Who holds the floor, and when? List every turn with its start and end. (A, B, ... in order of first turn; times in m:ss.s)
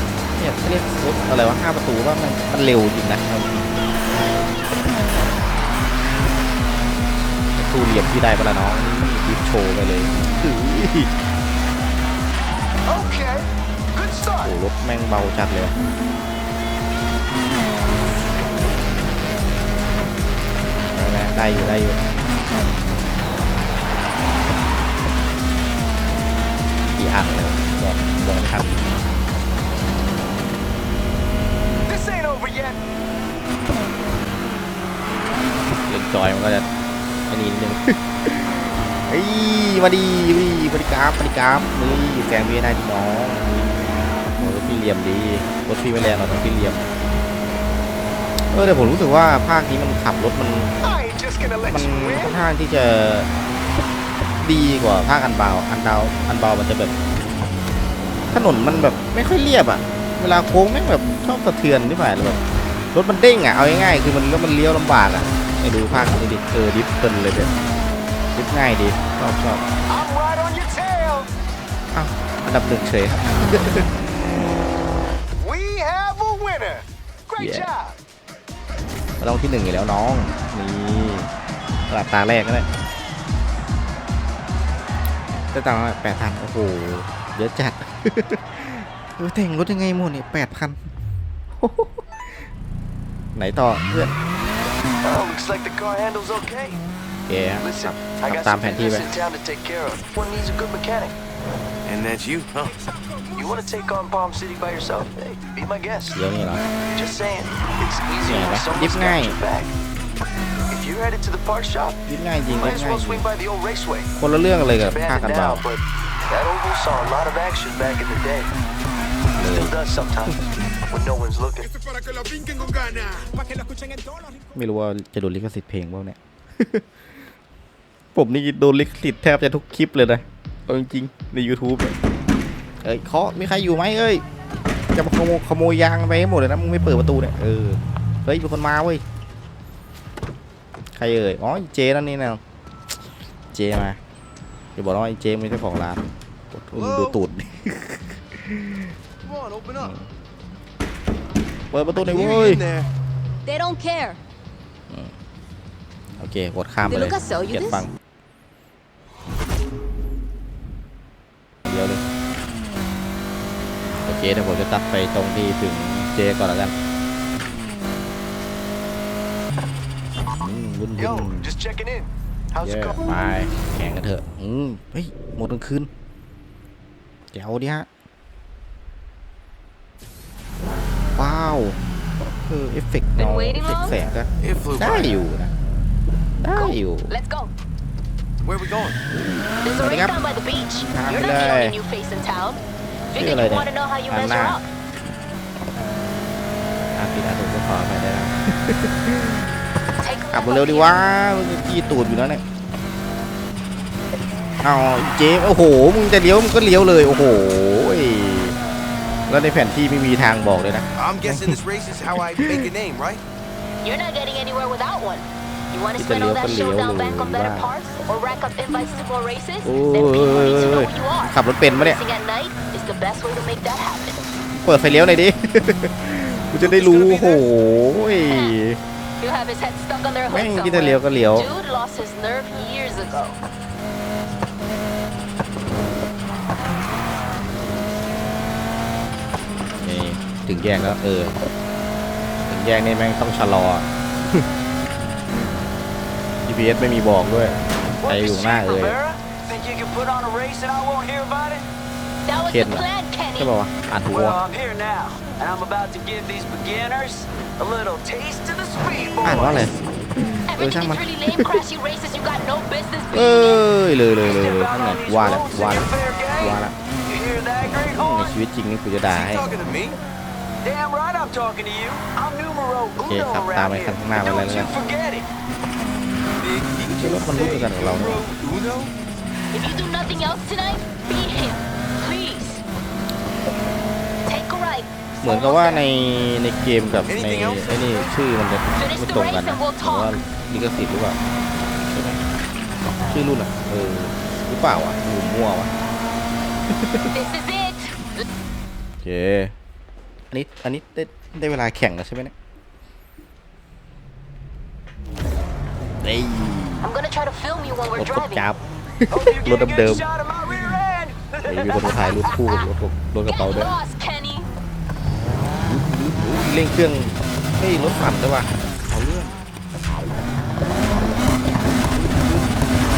0:00.4-0:03.8 A
0:07.6-0:11.1 A
0:12.9-0:14.5 B
0:14.4-0:15.8 A
0:20.9-0:22.0 A
0:27.0-0:29.0 A
0:31.9-0:32.8 B
0:35.9-0:36.7 A
0:37.3-0:46.8 A
0:48.5-0:50.7 A
0:50.8-0:52.4 B
0:51.7-0:53.3 A
0:54.4-0:56.9 A
0:58.3-1:02.4 A
1:02.9-1:07.5 A
1:08.3-1:09.6 A
1:09.9-1:11.3 B
1:11.9-1:14.0 A
1:15.4-1:18.0 B
1:17.4-1:17.7 A
1:19.2-1:21.3 A
1:21.9-1:22.7 A
1:25.5-1:30.9 A
1:31.5-1:32.5 A
1:33.4-1:34.2 A
1:35.0-1:36.8 B
1:37.3-1:39.1 A
1:37.6-1:41.2 B
1:41.8-1:42.8 C
1:43.3-1:46.2 B
1:46.1-1:46.7 A
1:46.9-1:49.7 B
1:48.2-1:49.4 A
1:50.7-1:54.1 B
1:52.1-1:53.3 A
1:54.2-1:55.6 A
1:54.8-1:58.5 B
1:59.4-1:59.8 A
1:59.4-2:00.4 B
2:00.9-2:01.8 B
2:03.1-2:04.2 B
2:04.5-2:07.0 A
2:08.1-2:12.0 A
2:12.8-2:14.2 A
2:14.9-2:19.0 A
2:21.0-2:22.4 A
2:23.5-2:24.0 A
2:24.8-2:28.9 A
2:26.8-2:27.1 B
2:29.3-2:29.9 B
2:29.3-2:29.9 C
2:29.8-2:30.1 A
2:31.7-2:32.6 A
2:32.0-2:32.9 C
2:33.4-2:34.2 D
2:34.9-2:35.2 A
2:36.2-2:37.9 A
2:36.9-2:37.9 D
2:41.7-2:42.0 A
2:44.0-2:46.7 A
2:50.4-2:51.5 A
2:51.0-2:53.0 B
2:52.6-2:55.9 A
2:57.3-2:57.9 A
3:01.2-3:05.5 A
3:03.2-3:04.0 D
3:04.4-3:05.2 C
3:06.4-3:07.1 A
3:06.5-3:07.5 D
3:08.4-3:09.0 C
3:09.1-3:10.2 A
3:09.6-3:14.6 D
3:10.9-3:11.8 A
3:13.2-3:14.6 A
3:17.0-3:19.5 A
3:20.0-3:21.0 D
3:20.3-3:22.4 A
3:24.6-3:28.6 A
3:29.3-3:31.6 A
3:31.0-3:33.2 C
3:32.1-3:32.7 A
3:33.8-3:44.2 D
3:36.0-3:37.7 A
3:39.6-3:42.0 A
3:44.5-3:48.8 A
3:46.6-3:47.4 D
3:48.2-3:48.6 D
3:49.2-3:53.4 D
3:50.3-3:51.5 A
3:59.8-4:01.4 A
4:02.5-4:04.5 A
4:06.4-4:09.0 A
4:08.0-4:11.7 B
4:12.2-4:13.5 D
4:12.4-4:14.4 A
4:14.1-4:19.7 B
4:19.2-4:21.6 A
4:20.5-4:23.6 D
4:23.1-4:26.8 A
4:24.3-4:28.3 B
4:27.9-4:29.5 A
4:29.1-4:30.0 C
4:30.6-4:35.3 B
4:33.0-4:34.7 A
4:36.4-4:38.9 B
4:37.0-4:38.2 A
4:39.5-4:42.6 D
4:44.3-4:45.8 D
4:45.2-4:51.2 A
4:47.1-4:48.1 B
4:48.7-4:50.2 D
4:51.8-4:52.2 A
4:53.0-4:55.7 A
4:56.7-4:57.1 A
4:57.1-4:58.3 D
4:59.0-4:59.5 A
5:00.3-5:02.3 A
5:06.0-5:06.9 A
5:06.8-5:08.5 D
5:08.0-5:10.0 A
5:09.1-5:12.0 B
5:11.4-5:13.7 A
5:11.8-5:12.7 D
5:13.2-5:14.5 D
5:15.5-5:19.4 A
5:20.9-5:21.4 A
5:21.9-5:22.5 A